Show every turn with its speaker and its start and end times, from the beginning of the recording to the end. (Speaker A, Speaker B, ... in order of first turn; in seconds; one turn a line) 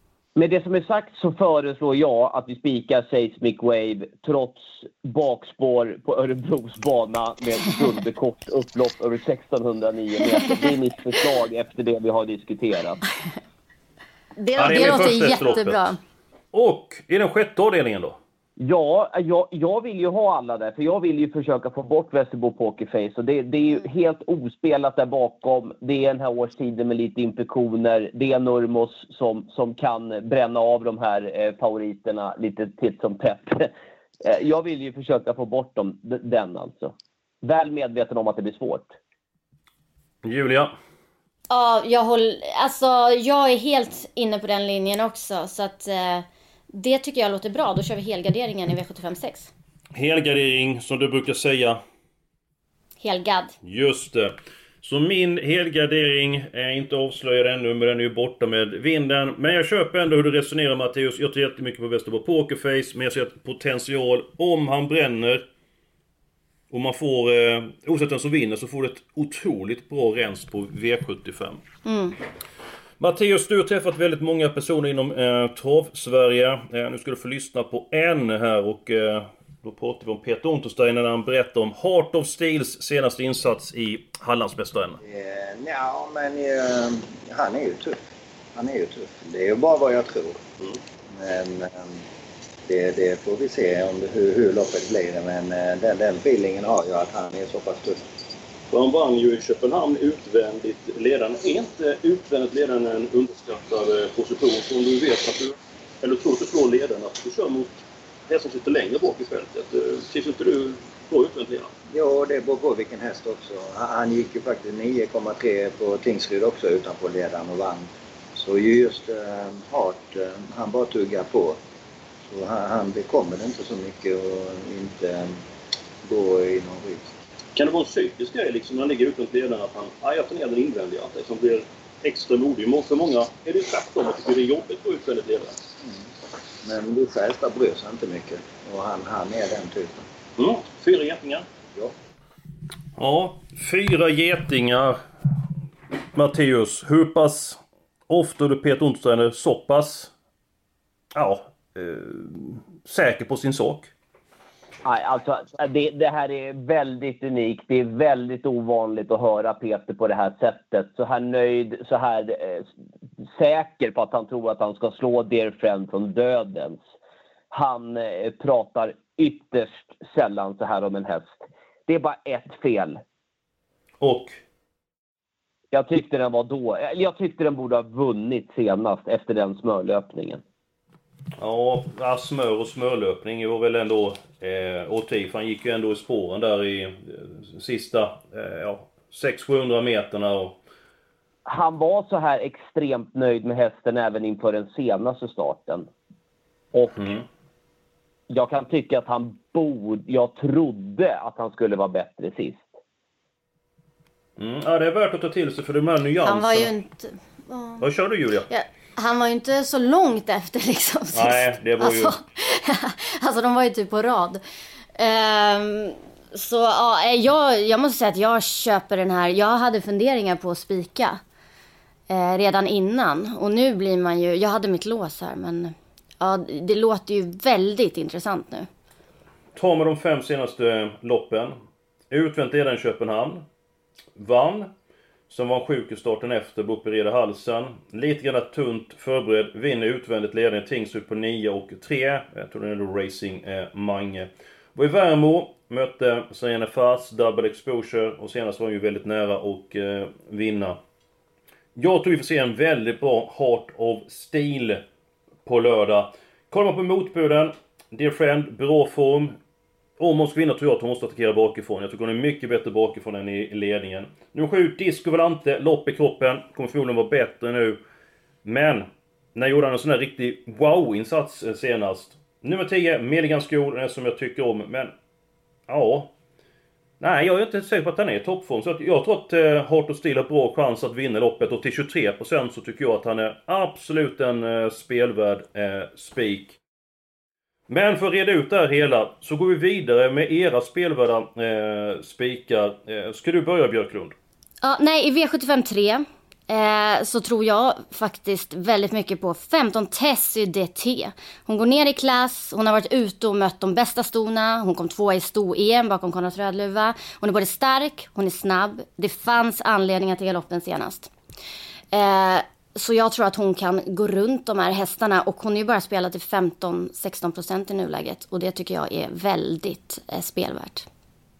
Speaker A: 0.3-13.0
Speaker B: 14.4-16.0
Speaker C: 14.6-15.9
Speaker C: 16.5-18.2
Speaker A: 18.6-33.7
Speaker A: 34.2-38.9
Speaker C: 40.2-40.7
Speaker B: 41.5-49.5
Speaker C: 49.9-51.8
Speaker B: 53.0-53.5
Speaker C: 53.6-65.4
Speaker C: 66.7-71.6
Speaker B: 71.8-72.2
Speaker C: 73.0-85.0
Speaker D: 85.0-88.0
Speaker D: 88.5-90.4
Speaker D: 91.1-92.0
Speaker D: 92.7-98.0
Speaker C: 98.7-107.8
Speaker C: 108.3-111.7
Speaker D: 111.9-121.6
Speaker D: 122.3-125.4
Speaker D: 126.0-127.1
Speaker C: 127.5-135.6
Speaker D: 136.6-140.0
Speaker C: 140.4-141.4
Speaker C: 143.0-145.0
Speaker C: 146.1-150.1
Speaker C: 151.1-153.9
Speaker A: 154.8-162.7
Speaker A: 163.2-166.8
Speaker A: 167.5-173.0
Speaker C: 174.0-174.4
Speaker A: 175.7-180.4
Speaker C: 181.4-190.6
Speaker A: 191.4-195.9
Speaker A: 196.7-197.1
Speaker C: 196.9-197.2
Speaker A: 198.3-202.7
Speaker C: 204.4-206.7
Speaker B: 206.2-207.8
Speaker C: 207.8-208.5
Speaker B: 208.5-214.4
Speaker C: 211.1-212.1
Speaker B: 214.9-221.2
Speaker B: 222.1-228.7
Speaker C: 229.5-231.5
Speaker C: 232.1-233.4
Speaker C: 234.2-234.7
Speaker C: 235.3-250.8
Speaker C: 251.8-254.8
Speaker C: 255.4-259.4
Speaker C: 260.0-267.8
Speaker C: 268.4-274.9
Speaker C: 275.7-276.1
Speaker C: 277.0-286.6
Speaker C: 287.7-294.1
Speaker B: 294.6-311.1
Speaker B: 311.9-320.9